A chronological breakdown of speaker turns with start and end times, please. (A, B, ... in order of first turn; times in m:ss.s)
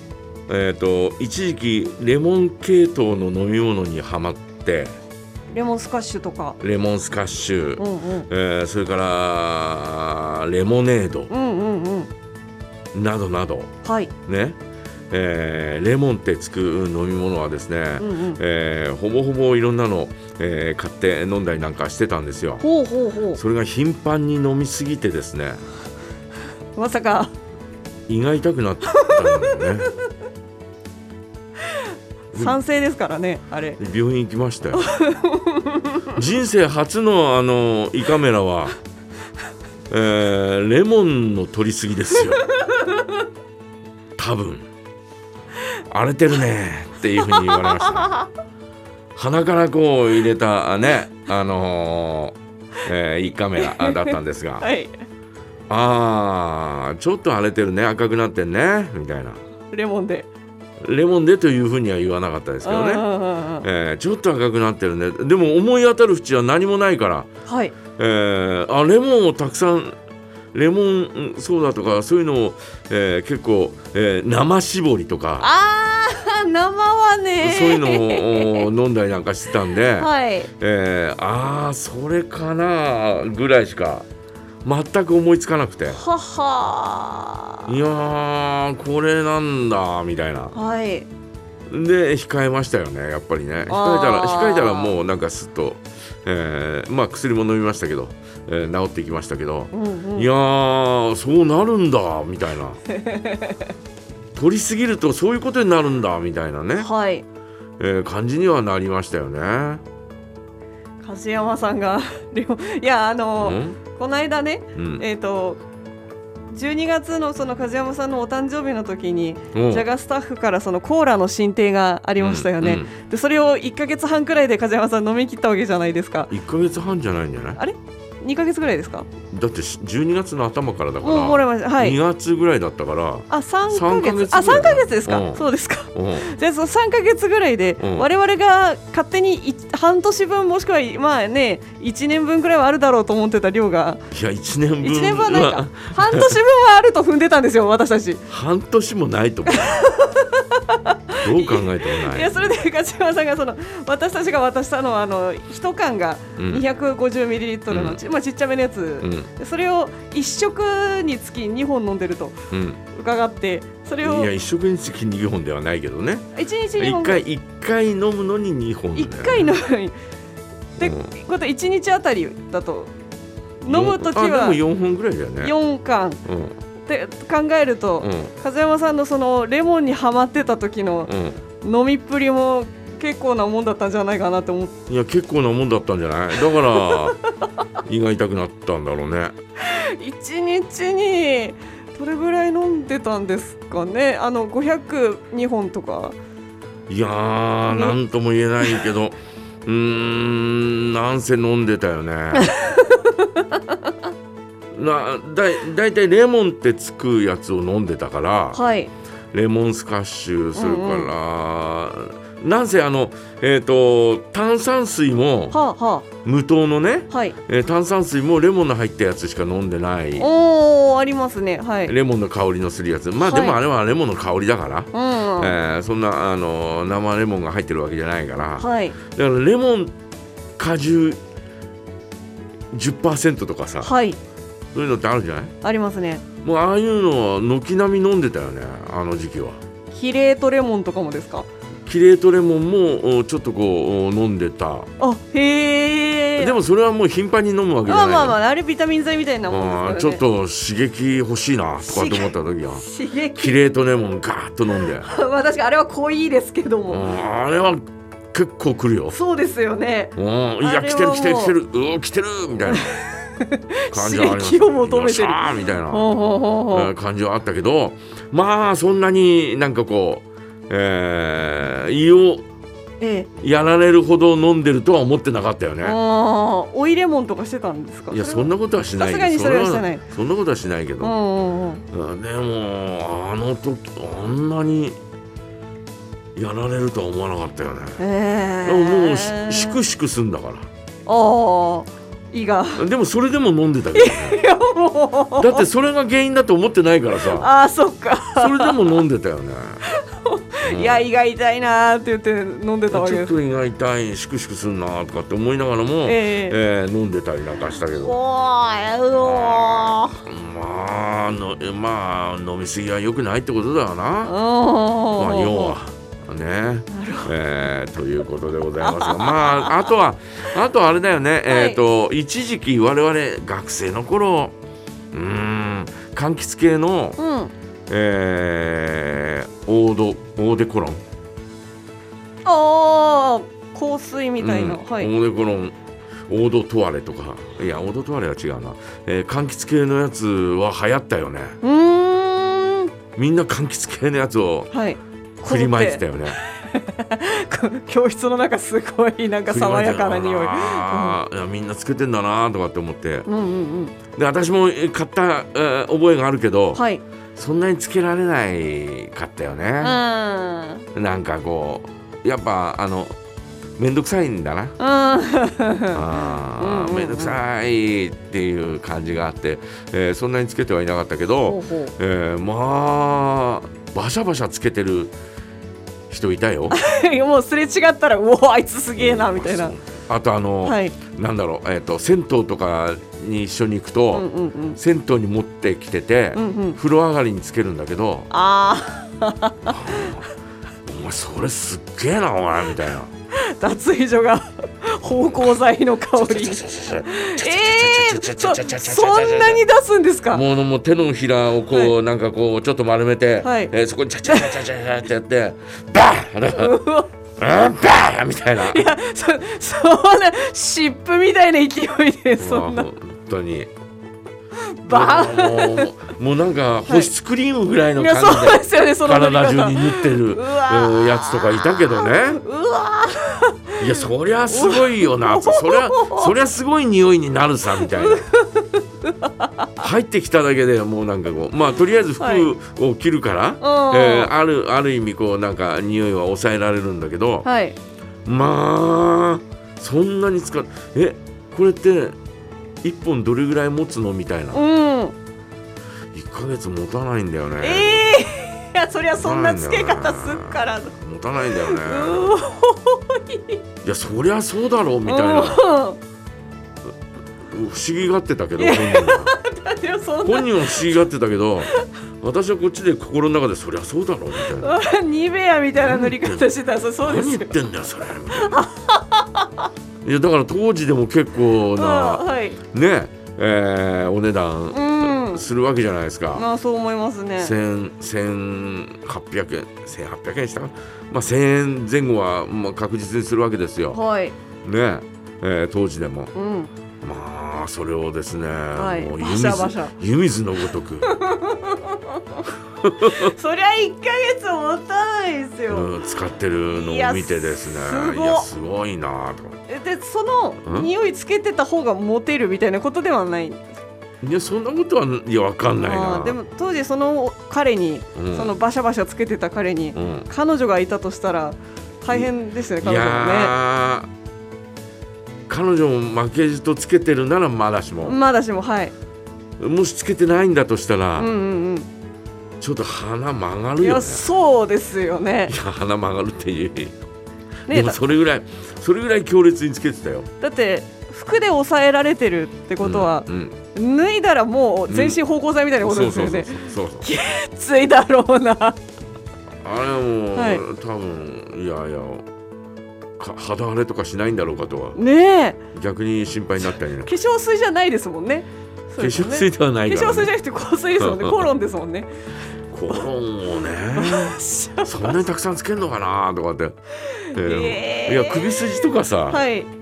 0:00.5-0:05.0 A
0:05.5-0:06.6 B
0:06.6-0:11.3 A
0:07.8-0:08.3 B
0:11.3-0:12.1 B
0:12.9-0:13.7 A
0:13.8-0:14.1 B
0:14.2-0:14.6 A
0:15.1-0:22.6 A
0:18.0-0:18.4 B
0:22.6-0:23.4 B
0:23.3-0:25.6 A
0:26.8-0:27.3 B
0:28.1-0:29.9 A
0:28.9-0:29.7 B
0:32.3-0:33.8 B
0:33.8-0:34.8 A
0:34.7-0:36.1 B
0:36.1-0:38.7 A
0:39.9-0:42.5 A
0:44.2-0:44.6 A
0:45.9-0:48.2 A
0:47.3-0:48.2 B
0:49.2-0:54.7 A
0:53.6-0:54.9 B
0:55.7-0:59.4 A
0:59.7-1:00.3 B
1:00.8-1:03.1 A
1:02.6-1:03.6 B
1:03.6-1:07.3 A
1:07.4-1:07.8 B
1:08.0-1:09.9 A
1:10.5-1:15.5 A
1:15.4-1:18.7 B
1:17.4-1:24.1 A
1:19.9-1:20.5 B
1:24.6-1:26.0 A
1:25.9-1:27.7 B
1:27.6-1:30.5 A
1:30.5-1:31.1 B
1:31.7-1:42.8 A
1:33.7-1:34.9 B
1:39.7-1:40.3 B
1:42.9-1:43.6 B
1:44.3-1:46.9 A
1:46.8-1:47.2 B
1:47.8-1:49.8 A
1:51.0-1:55.6 B
1:53.4-1:53.8 A
1:54.7-1:55.0 A
1:56.5-2:06.3 B
1:59.5-1:59.8 A
2:02.2-2:02.9 A
2:06.3-2:07.6 A
2:07.6-2:09.1 B
2:09.3-2:15.4 A
2:11.0-2:12.0 B
2:13.3-2:24.0 B
2:15.9-2:16.3 A
2:17.8-2:18.0 A
2:24.1-2:26.4 A
2:24.8-2:28.2 B
2:28.3-2:29.8 A
2:29.4-2:42.3 B
2:31.2-2:32.3 A
2:36.4-2:36.6 A
2:37.7-2:38.0 A
2:39.0-2:39.3 A
2:42.5-2:42.8 A
2:42.9-2:44.3 B
2:44.0-2:49.5 A
2:46.3-2:47.2 B
2:49.0-2:50.0 B
2:50.8-2:52.9 B
2:50.8-2:51.2 A
2:53.6-2:54.6 B
2:53.7-2:55.5 A
2:55.4-2:56.2 B
2:56.2-2:56.6 A
2:56.9-3:01.1 B
2:58.0-2:58.3 A
3:01.0-3:01.4 A
3:01.6-3:04.7 B
3:04.9-3:07.2 A
3:06.5-3:07.1 B
3:07.8-3:09.3 A
3:09.6-3:16.2 B
3:16.9-3:22.5 A
3:17.7-3:18.0 B
3:22.3-3:23.6 B
3:24.7-3:28.6 A
3:28.5-3:28.9 B
3:29.3-3:35.6 A
3:30.6-3:31.1 B
3:35.5-3:36.1 B
3:36.2-3:40.3 A
3:37.1-3:37.4 B
3:40.2-3:41.9 B
3:41.9-3:49.9 A
3:43.2-3:43.6 B
3:44.9-3:45.6 B
3:48.6-3:49.0 B
3:50.6-3:51.2 A
3:52.7-3:53.9 A
3:53.8-3:54.2 B
3:54.7-3:55.5 A
3:55.6-3:56.2 B
3:56.4-3:59.6 A
3:59.9-4:01.5 B
4:01.8-4:04.9 A
4:05.0-4:06.6 B
4:06.4-4:08.4 A
4:07.8-4:10.2 B
4:09.5-4:12.8 A
4:11.8-4:13.6 B
4:13.4-4:15.1 A
4:15.0-4:17.0 B
4:16.9-4:19.2 A
4:19.1-4:21.6 B
4:20.1-4:23.0 A
4:22.7-4:26.9 B
4:23.9-4:26.1 A
4:26.7-4:32.4 A
4:33.0-4:33.3 B
4:33.4-4:36.0 A
4:35.8-4:40.0 B
4:38.1-4:41.2 A
4:41.0-4:41.8 B
4:41.9-4:45.0 A
4:46.4-4:48.0 A
4:48.0-4:49.8 B
4:48.6-4:50.7 A
4:51.0-4:52.8 B
4:52.8-4:54.4 A
4:53.9-4:55.6 B
4:55.4-4:57.5 A
4:57.2-4:59.0 B
4:58.3-4:59.8 A
4:59.8-5:03.3 B
5:00.6-5:01.0 A
5:02.9-5:08.2 A
5:06.0-5:06.6 B
5:07.9-5:10.1 B
5:09.1-5:14.3 A
5:14.2-5:15.8 B
5:15.2-5:24.5 A
5:16.9-5:17.3 B
5:18.8-5:19.9 B
5:21.5-5:21.8 B
5:25.1-5:27.2 A
5:27.2-5:27.5 B
5:27.9-5:31.0 A
5:32.4-5:35.1 B
5:34.4-5:35.7 A
5:36.3-5:41.6 A
5:41.6-5:42.9 B
5:43.2-5:44.7 A
5:44.7-5:51.2 B
5:45.4-5:46.4 A
5:49.5-5:53.3 A
5:53.3-5:53.9 B
5:54.1-5:56.8 A
5:56.7-5:57.0 B
5:57.3-6:00.0 A
5:59.8-6:00.8 B
6:00.9-6:03.1 A
6:03.8-6:04.8 A
6:04.8-6:06.0 B
6:05.9-6:15.1 A
6:06.6-6:07.4 B
6:11.4-6:11.9 B
6:16.1-6:16.8 A
6:16.7-6:19.7 B
6:19.0-6:28.3 A
6:20.6-6:21.0 B
6:24.1-6:24.8 B
6:26.3-6:26.8 B
6:28.3-6:30.2 B
6:29.6-6:30.3 A
6:30.8-6:33.1 A
6:33.3-6:40.4 B
6:36.2-6:39.6 A
6:40.3-6:46.8 A
6:43.4-6:43.7 B
6:44.2-6:44.6 B
6:46.5-6:47.1 B
6:47.4-6:48.9 A
6:48.6-6:52.9 B
6:52.4-6:53.7 A
6:54.8-6:55.9 B
6:54.9-7:02.4 A
6:57.9-7:06.4 B
7:03.8-7:08.2 A
7:07.8-7:09.8 B
7:09.8-7:17.5 A
7:12.2-7:12.5 B
7:13.6-7:14.3 B
7:17.4-7:17.8 B
7:18.2-7:22.2 A
7:22.8-7:24.6 A
7:24.5-7:25.1 B
7:26.1-7:28.1 A
7:27.6-7:30.9 B
7:29.1-7:32.4 A
7:31.5-7:33.6 B
7:33.8-7:35.6 A
7:35.0-7:36.0 B
7:37.5-7:39.3 A
7:38.6-7:40.9 B
7:40.2-7:44.8 A
7:44.6-7:47.6 B
7:45.8-7:46.4 A
7:47.0-7:48.6 A
7:48.3-7:49.5 B
7:50.0-7:56.4 A
7:51.7-7:52.6 B
7:54.7-7:55.5 B
7:56.3-7:57.5 B
7:57.4-8:04.0 A
8:03.9-8:04.3 B
8:04.6-8:06.3 A
8:06.3-8:06.7 B
8:07.0-8:11.1 A
8:08.8-8:09.9 B
8:11.0-8:12.4 B
8:12.8-8:13.3 A
8:13.1-8:16.1 B
8:15.7-8:19.6 A
8:16.7-8:18.5 B
8:19.7-8:23.7 B
8:24.2-8:26.4 A
8:25.8-8:33.6 B
8:28.1-8:28.5 A
8:29.9-8:30.3 A
8:32.1-8:34.1 A
8:35.5-8:38.2 A
8:38.0-8:38.9 B
8:39.6-8:41.3 A
8:41.2-8:41.9 B
8:42.6-8:44.2 A
8:43.8-8:45.5 B
8:45.5-8:47.0 A
8:47.7-8:48.0 B
8:47.7-8:50.3 A
8:50.4-8:58.8 B
8:52.8-8:53.6 A
8:54.9-8:55.2 A
8:55.8-8:57.1 A
8:59.6-9:02.2 A
9:00.3-9:00.6 B
9:03.2-9:05.0 A
9:04.9-9:05.6 B
9:05.7-9:07.1 A
9:07.0-9:12.1 B
9:09.0-9:10.3 A
9:11.0-9:11.5 A
9:12.7-9:16.8 A
9:13.9-9:15.2 B
9:17.1-9:18.6 B
9:17.3-9:19.4 A
9:19.3-9:19.7 B